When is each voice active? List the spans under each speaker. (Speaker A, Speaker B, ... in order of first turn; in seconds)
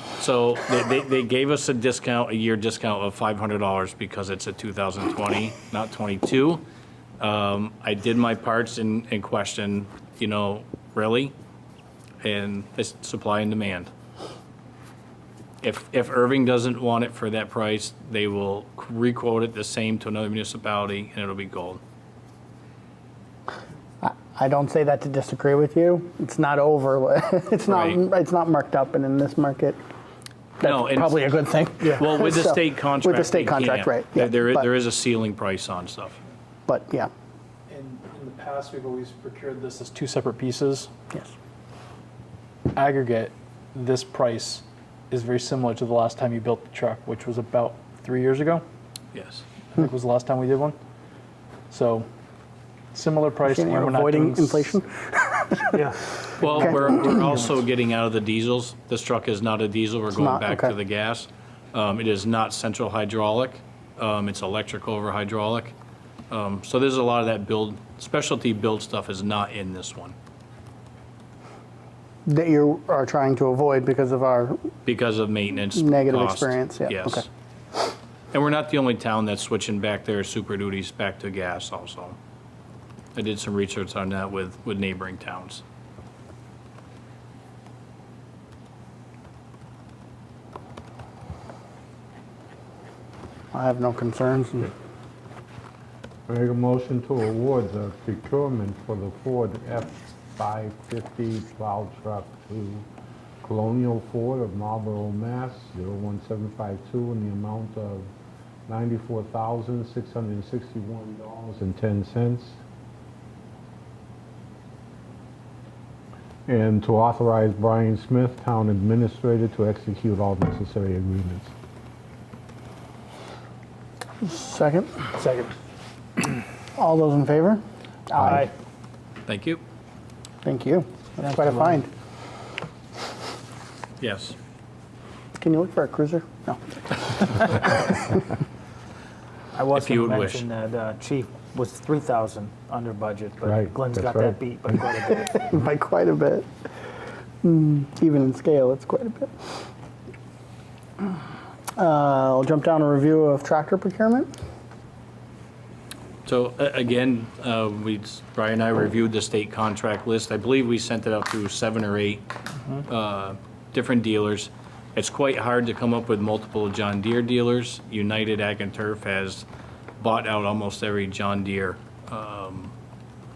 Speaker A: 0.2-6.6, 7.2-11.3, 12.2-13.9, 15.6-21.8, 27.7-28.0, 30.6-36.2, 49.1-49.4, 56.4-65.7, 66.3-70.1, 74.8-77.2, 78.3-82.2, 83.1-85.6, 129.3-129.6, 134.0-134.3, 139.7-140.4, 156.2-162.3, 162.8-169.4, 170.0-172.7
Speaker B: 24.0-29.8, 30.6-34.7, 36.7-37.1, 53.4-55.8, 60.1-60.8, 72.2-74.7, 75.7-77.2, 93.5-94.7, 124.2-125.0, 126.8-128.4, 130.4-131.9, 135.4-138.2, 145.0-146.5, 147.4-149.6, 151.8-154.3
Speaker C: 37.7-40.9, 42.7-48.6, 49.7-50.8, 51.7-52.1, 52.9-54.7, 56.4-57.3
Speaker D: 55.7-56.1, 125.1-125.5, 128.2-128.5, 139.5-145.3
Speaker E: 96.3-102.8, 103.4-108.1, 108.7-112.6, 116.5-121.5, 128.2-128.5, 143.5-144.4